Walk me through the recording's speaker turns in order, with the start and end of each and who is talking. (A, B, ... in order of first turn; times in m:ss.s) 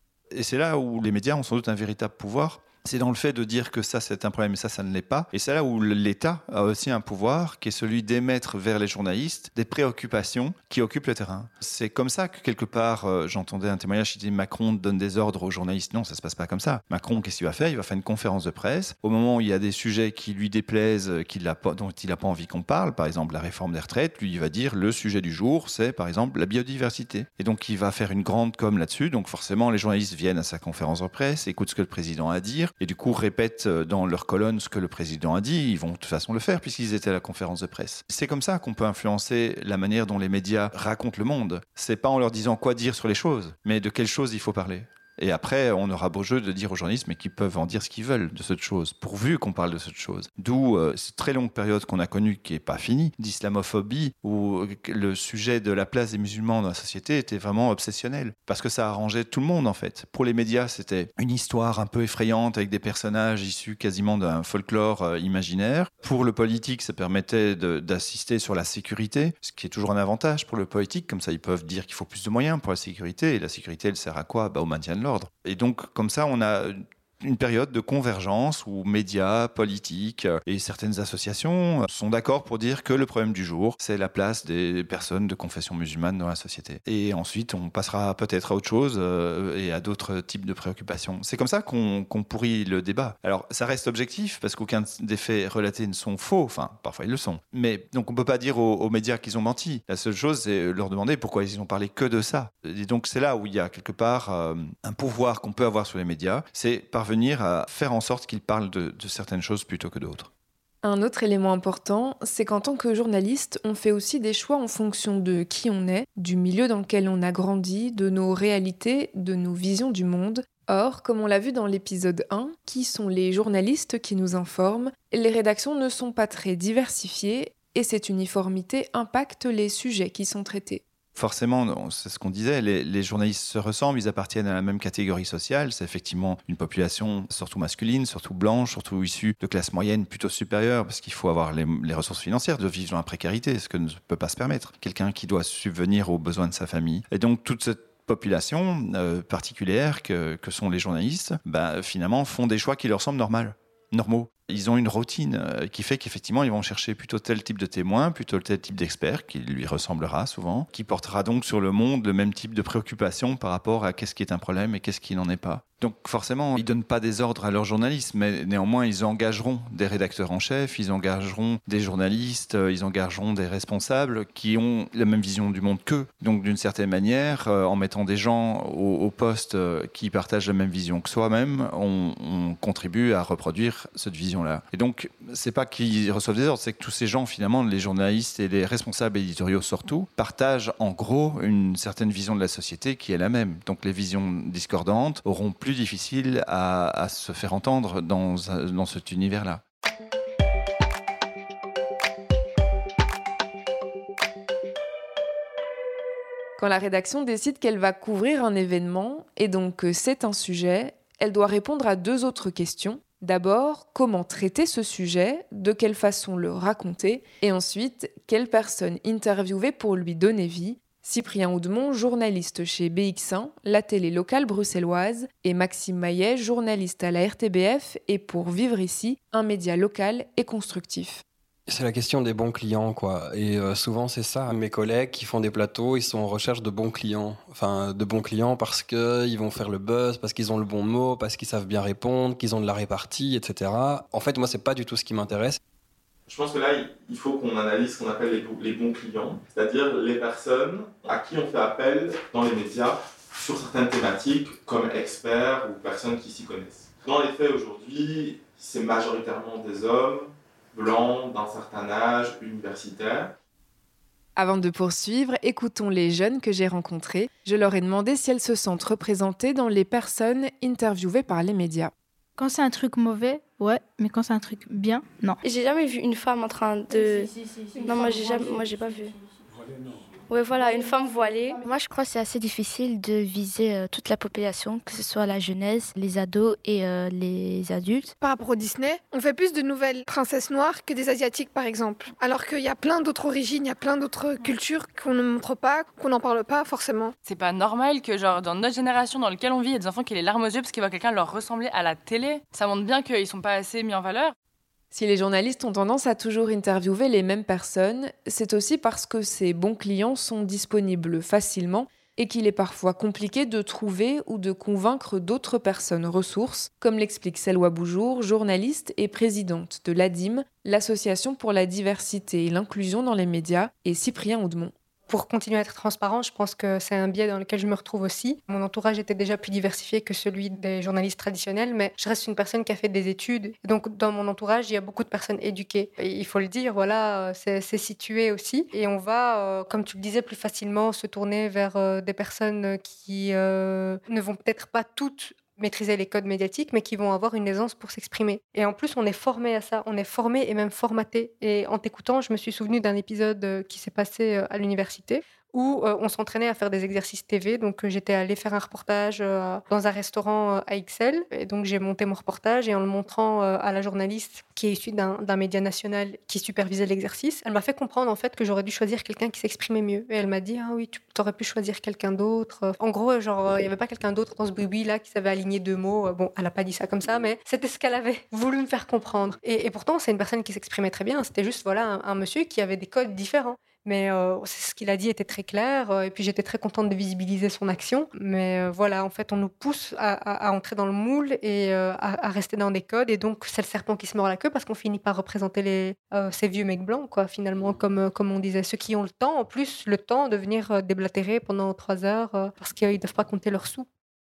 0:00.3-1:50.3 A
1:50.8-2:10.8 B
2:11.2-3:19.6 A
3:26.6-3:51.2 B
3:51.7-4:05.6 C
4:06.3-4:23.3 D
4:24.4-4:31.9 B
4:32.4-4:35.4 E
4:35.4-4:37.3 F
4:36.9-4:39.1 E
4:37.8-4:39.2 F
4:40.3-4:41.6 F
4:41.6-4:48.1 G
4:48.2-4:57.1 H
4:57.2-5:04.4 I
5:04.9-5:24.7 B
5:25.1-6:43.9 J